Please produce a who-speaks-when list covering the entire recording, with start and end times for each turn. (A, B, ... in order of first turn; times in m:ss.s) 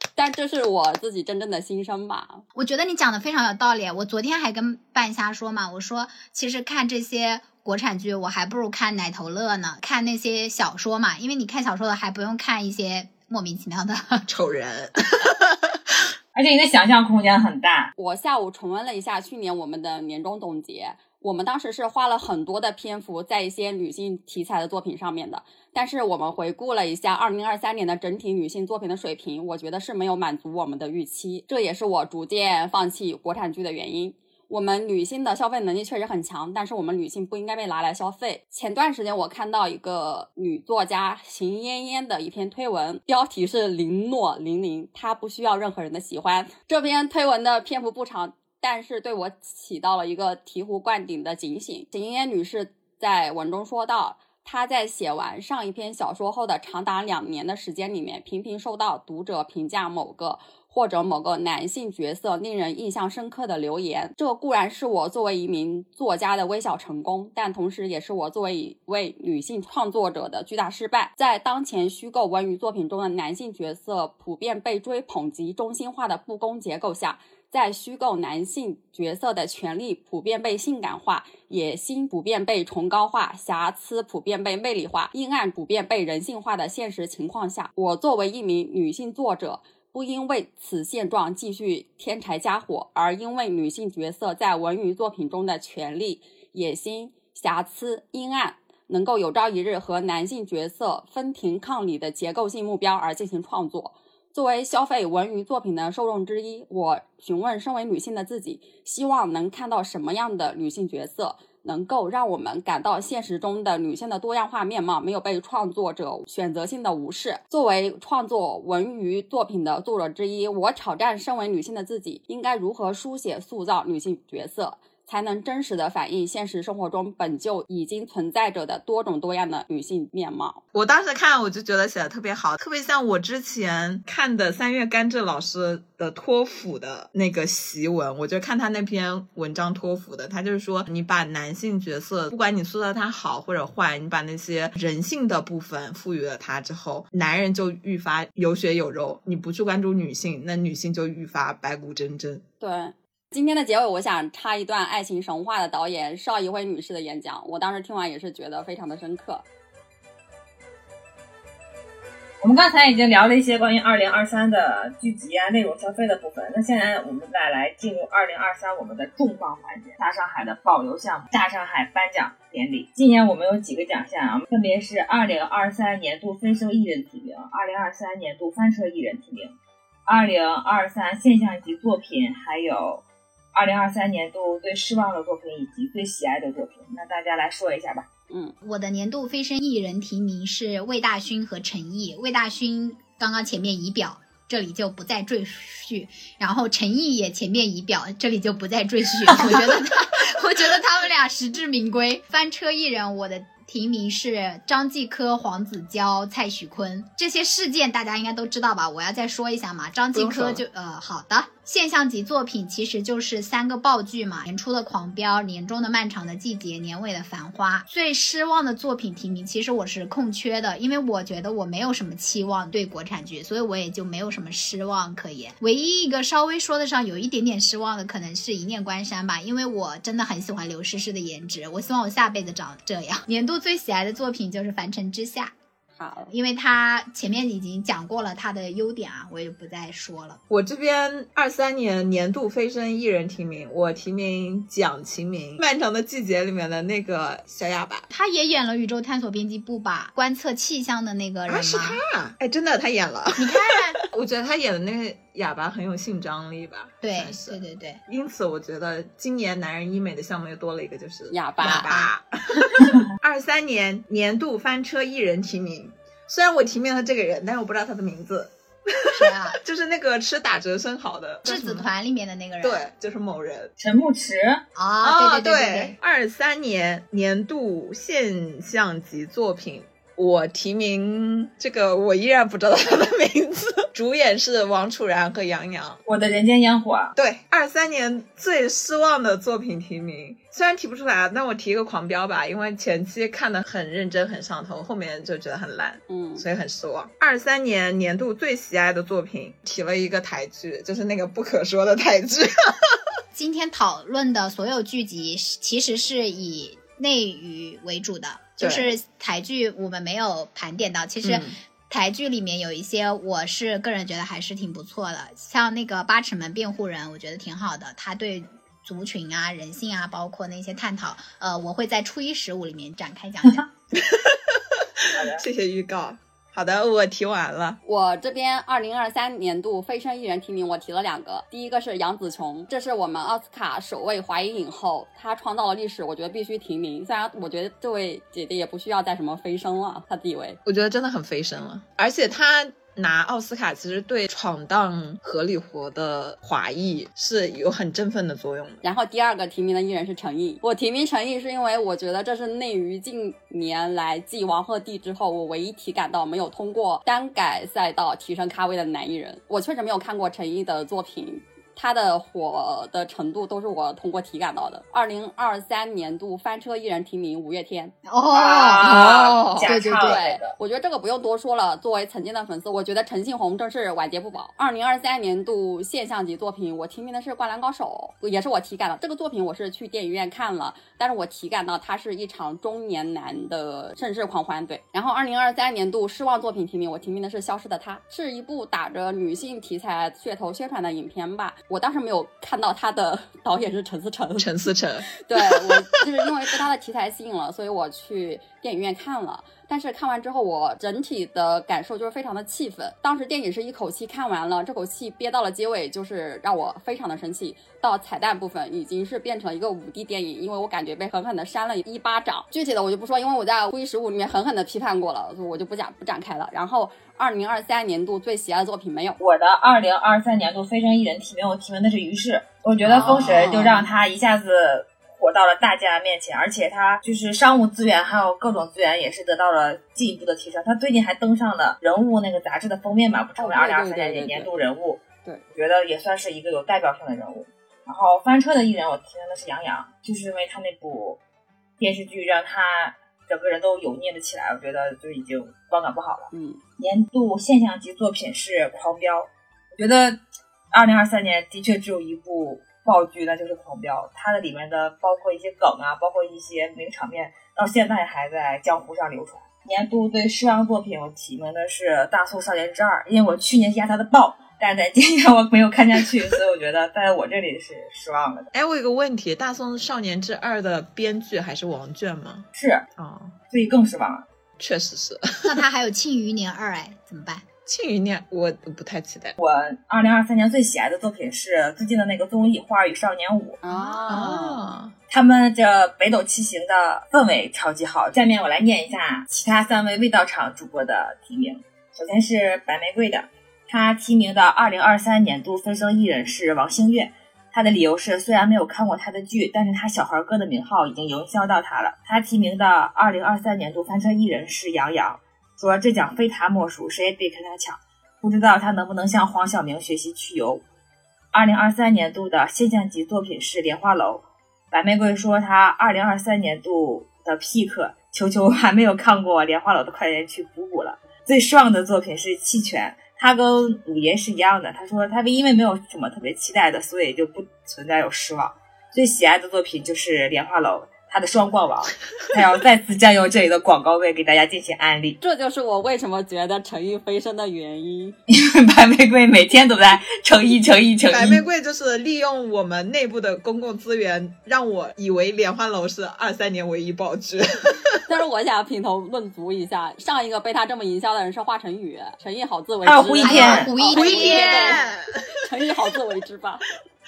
0:00.2-0:02.4 A
0:02.5-0:14.3 B
0:14.3-0:16.0 C
0:16.3-0:17.9 D
0:18.0-2:10.6 A
2:10.7-2:32.4 C
2:32.6-2:39.4 A
2:42.4-2:59.5 D
3:00.1-3:08.1 D
3:08.3-3:08.6 A
3:08.6-3:55.5 B
3:30.1-3:30.6 C
3:56.0-3:56.3 A
3:56.3-4:00.4 B
4:00.5-4:08.0 C
4:08.1-4:12.0 B
4:11.5-4:31.9 C
4:13.4-4:14.0 B
4:17.0-4:18.0 B
4:21.3-4:21.9 A
4:21.6-4:22.9 B
4:29.1-4:29.6 B
4:31.4-4:32.9 B
4:32.6-4:33.7 C
4:33.8-4:34.6 D
4:34.8-4:35.9 B
4:35.0-4:46.0 C
4:46.0-4:47.1 D
4:47.2-5:03.2 C
4:56.1-4:56.4 A
5:03.3-5:23.7 B
5:08.6-5:08.9 C
5:11.2-5:11.6 C
5:23.9-5:27.8 C
5:25.1-5:25.4 D
5:27.8-5:40.6 A
5:40.6-5:48.8 C
5:48.8-6:07.9 A
6:08.1-6:09.0 B
6:08.3-6:10.5 D
6:08.8-6:09.8 C
6:09.6-6:10.2 B
6:10.0-6:34.5 A
6:34.4-6:35.8 C
6:35.1-6:59.2 A
6:59.2-7:21.2 D
7:02.8-7:03.9 A
7:13.4-7:14.5 A
7:21.8-7:30.2 D
7:26.3-7:26.6 A
7:30.7-7:48.5 D
7:48.5-7:52.4 C
7:52.5-7:52.8 D
7:53.0-7:53.4 C
7:53.5-7:54.2 D
7:54.6-7:55.6 C
7:55.4-7:57.4 B
7:57.6-7:59.4 C
7:59.4-8:03.6 D
8:03.6-8:04.6 A
8:03.7-8:04.9 C
8:05.1-8:30.6 D
8:31.3-8:55.2 D
8:55.2-8:58.2 A
8:58.3-9:01.4 D
9:01.1-9:08.0 C
9:08.1-9:14.8 A
9:12.8-9:13.7 D
9:13.2-9:14.8 B
9:13.9-9:15.2 C
9:15.4-9:16.6 A